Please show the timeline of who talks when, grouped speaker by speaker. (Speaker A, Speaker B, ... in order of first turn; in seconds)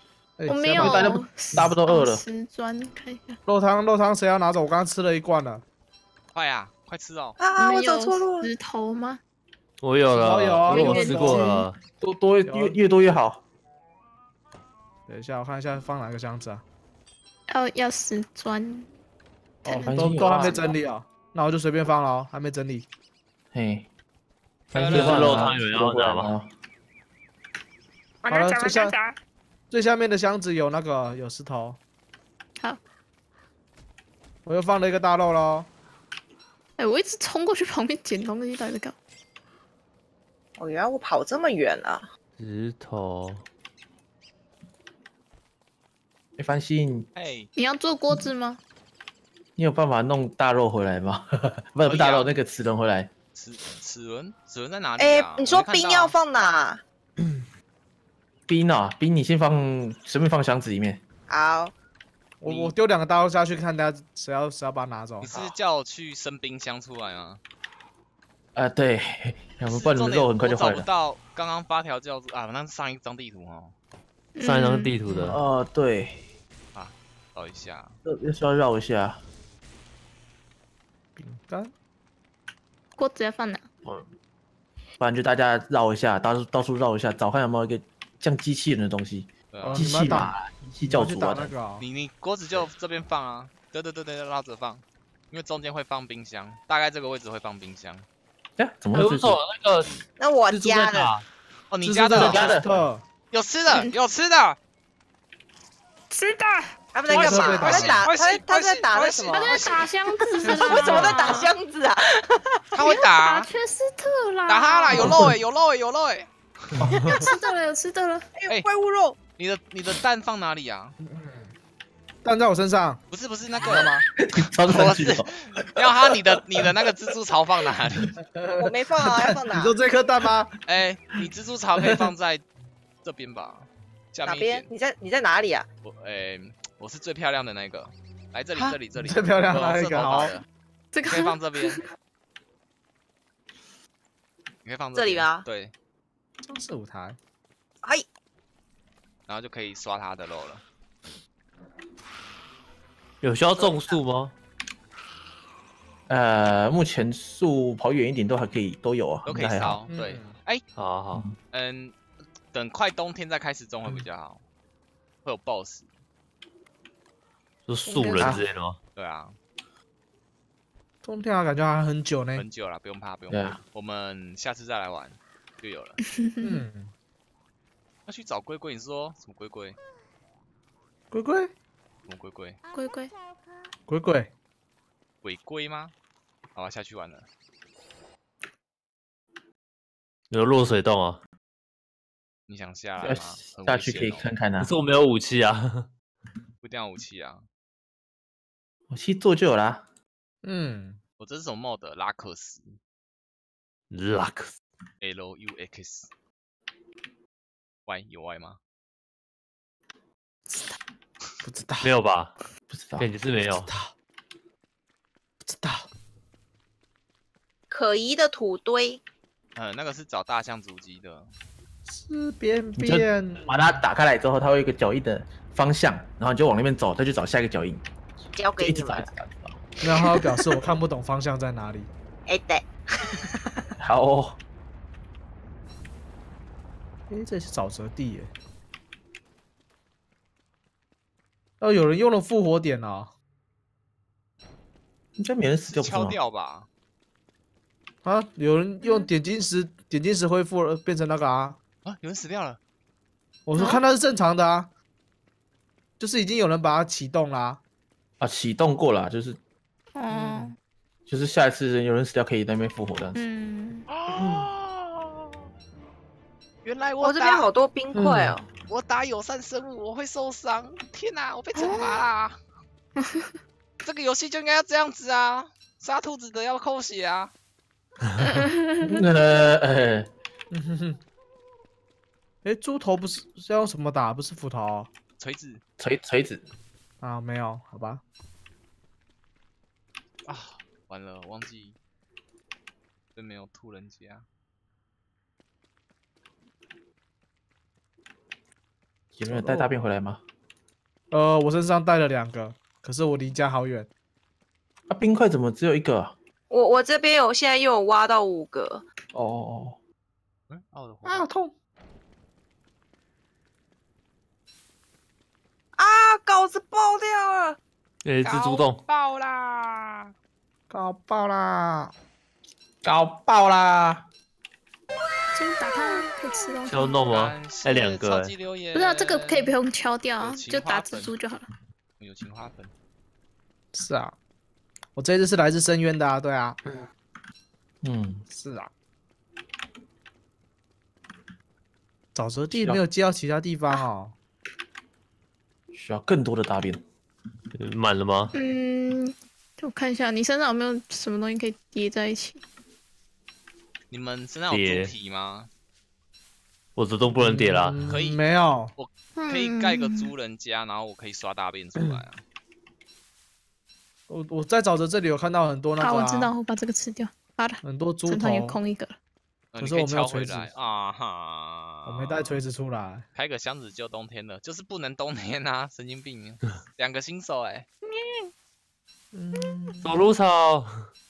Speaker A: 0.4-1.2, 3.5-5.6, 10.1-11.5, 12.4-12.8, 15.1-16.6, 19.6-22.9, 28.3-29.0, 29.7-31.8, 34.4-35.7, 62.4-65.4, 81.2-81.7, 89.6-91.8, 101.8-103.0, 107.1-108.0, 110.4-111.2, 121.0-121.5, 122.2-123.0, 123.6-124.0, 128.2-128.7, 129.3-130.5, 131.8-132.1, 139.0-140.4, 146.4-147.2, 159.9-160.4, 167.8-168.3, 171.0-172.4, 176.4-176.9, 181.1-181.5, 183.9-184.3, 200.4-201.0, 211.4-211.9, 213.5-213.9, 215.4-215.8, 221.9-223.7, 229.8-231.9, 237.1-238.3, 241.6-243.1, 248.0-251.6, 253.4-254.7, 256.0-257.6, 260.1-260.5, 267.9-268.3, 280.5-281.0, 282.4-284.9, 287.0-288.0, 299.3-299.8, 301.1-303.9, 311.0-311.5, 320.7-321.9, 333.7-334.1, 334.9-336.6, 338.3-338.7, 342.1-344.1, 357.1-358.7, 364.1-366.3, 367.6-368.6, 369.6-370.5, 371.9-373.0, 379.1-379.8
Speaker B: 0.5-3.4, 7.5-9.2, 10.7-11.7, 17.5-18.9, 19.6-20.7, 28.2-29.2, 36.8-38.9, 47.5-48.6, 74.3-75.0, 83.0-83.6, 103.7-103.9, 106.1-106.7, 109.3-111.5, 112.8-115.1, 117.0-118.3, 140.9-141.8, 176.0-176.6, 182.7-183.1, 248.8-249.1, 253.5-253.8, 259.9-260.5, 263.1-263.9, 271.6-271.9, 273.0-273.3, 278.2-278.9, 325.3-327.0, 328.7-331.5, 348.3-352.4, 359.1-360.1, 365.8-368.9
Speaker C: 0.7-2.2, 12.0-13.4, 19.8-20.7, 23.5-23.9, 24.8-26.5, 46.4-47.1, 49.6-53.1, 58.5-61.0, 68.5-70.9, 75.1-76.2, 78.0-79.2, 85.0-91.5, 98.6-99.4, 102.2-102.7, 115.0-115.3, 116.8-117.1, 124.2-125.2, 156.1-159.8, 168.1-168.5, 173.3-173.6, 193.0-194.7, 198.9-199.8, 212.7-213.1, 222.8-227.8, 228.6-229.6, 233.8-234.4, 245.2-246.2, 258.2-259.4, 261.1-263.2, 278.8-280.1, 285.8-286.4, 299.1-300.2, 304.9-306.1, 309.1-309.8, 322.8-324.0, 337.8-338.2, 342.5-342.8, 345.7-346.8
Speaker D: 6.3-7.4, 24.7-25.6, 47.1-47.5, 51.9-52.3, 53.3-56.1, 62.4-62.7, 65.2-67.4, 69.7-73.8, 76.7-78.0, 89.5-89.8, 91.8-98.0, 101.7-102.6, 103.3-104.6, 107.2-109.9, 112.7-113.5, 114.5-116.8, 119.4-121.0, 123.1-124.0, 124.7-128.2, 130.7-132.4, 133.0-134.7, 135.8-140.4, 141.0-141.8, 144.6-145.7, 149.3-150.6, 159.2-160.6, 161.5-162.0, 162.5-164.4, 165.2-165.9, 168.9-169.3, 172.3-176.0, 178.1-179.8, 182.1-182.6, 185.2-185.9, 186.5-187.3, 192.5-194.3, 196.6-197.4, 201.2-202.8, 205.0-206.1, 207.8-208.6, 219.6-221.3, 245.7-246.7, 251.8-252.6, 263.9-265.2, 266.6-267.5, 268.7-272.4, 273.8-277.3, 285.2-285.6, 290.2-291.8, 293.1-294.2, 310.5-311.3, 318.2-320.1, 327.1-329.6, 330.2-331.1, 332.0-332.7, 353.9-355.5, 357.9-358.2, 358.8-362.2, 369.5-372.4, 373.1-377.7
Speaker E: 7.4-8.5, 40.6-42.0, 55.0-56.8, 61.3-61.7, 100.2-101.1, 106.9-109.6, 110.2-112.8, 118.3-119.2, 128.6-129.8, 134.2-135.7, 144.9-145.4, 153.6-154.0, 217.7-219.0, 228.3-229.1, 232.3-233.6, 267.0-268.5, 306.5-308.8, 315.8-317.6
Speaker F: 9.8-11.8, 24.7-26.3, 42.4-43.4, 74.4-75.4, 98.9-101.2, 153.2-154.3, 160.8-161.3, 167.7-168.8, 190.3-191.2, 194.6-195.9, 203.9-204.5, 211.8-212.3, 213.0-213.7, 318.0-318.8, 326.6-328.3, 347.6-348.3, 354.5-354.9, 356.8-357.8, 379.8-380.7